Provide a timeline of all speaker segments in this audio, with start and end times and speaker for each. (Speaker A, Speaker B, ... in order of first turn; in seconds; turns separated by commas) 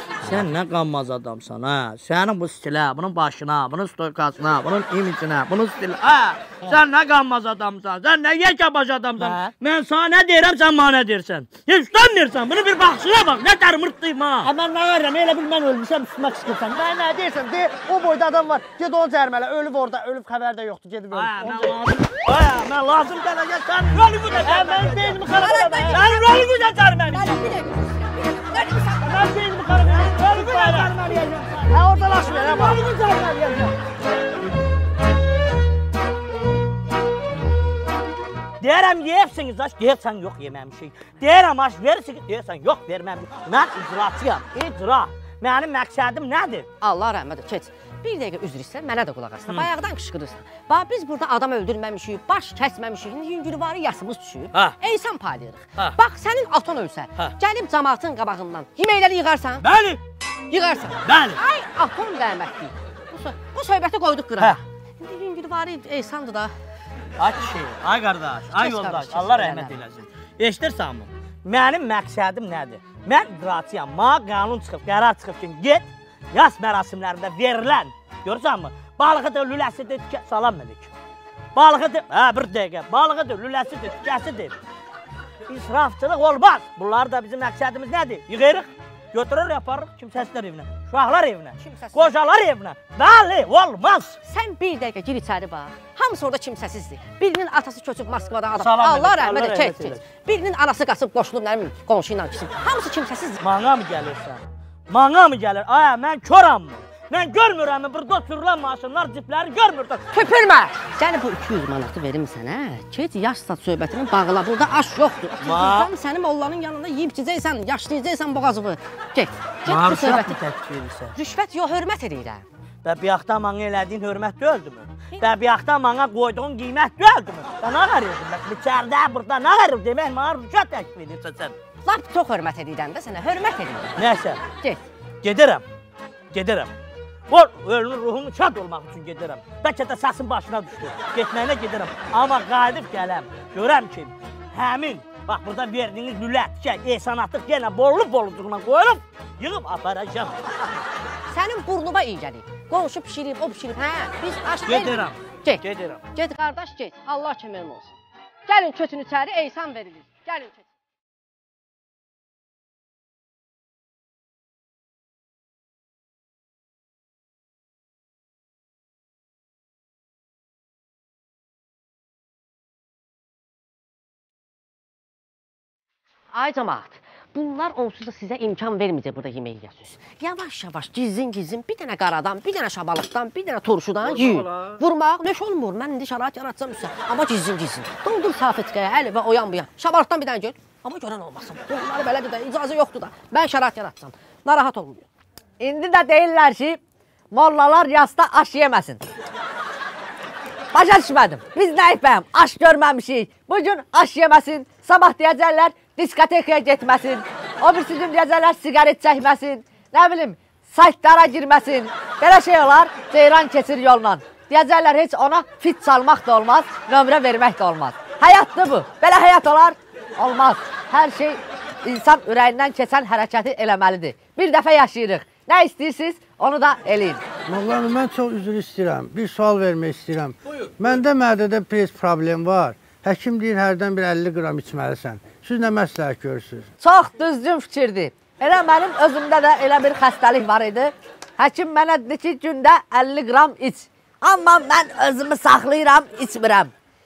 Speaker A: 0.2-14.5, Speaker B: 0.2-0.5, Speaker B: 9.2-9.5, Speaker B: 14.4-21.8, Speaker A: 21.1-25.2, Speaker B: 24.4-26.0, Speaker C: 25.2-30.3, Speaker A: 25.8-27.4, Speaker B: 29.0-30.9, Speaker A: 29.8-31.7, Speaker B: 31.7-33.7, Speaker C: 32.3-33.1, Speaker A: 32.5-33.0, Speaker A: 38.6-46.6, Speaker C: 46.8-59.6, Speaker A: 59.6-60.0, Speaker C: 60.5-66.5, Speaker A: 61.0-61.4, Speaker A: 67.2-80.9, Speaker C: 68.5-69.8, Speaker A: 81.5-84.5, Speaker A: 85.5-94.2, Speaker C: 91.6-92.1, Speaker C: 94.2-103.4, Speaker A: 98.6-100.0, Speaker A: 103.4-110.0, Speaker C: 110.1-120.4, Speaker A: 115.4-115.9, Speaker A: 119.7-121.1, Speaker C: 121.2-122.4, Speaker A: 122.8-131.5, Speaker C: 131.8-134.0, Speaker A: 133.9-134.4, Speaker A: 135.2-135.6, Speaker A: 136.3-136.7, Speaker A: 137.3-150.4, Speaker C: 151.3-155.6, Speaker A: 154.7-156.0, Speaker C: 156.1-157.9, Speaker C: 158.5-160.6, Speaker C: 176.3-195.1, Speaker A: 184.0-184.7, Speaker D: 195.6-196.8, Speaker D: 197.3-199.0, Speaker D: 200.7-227.2, Speaker E: 227.5-236.7, Speaker D: 236.8-246.7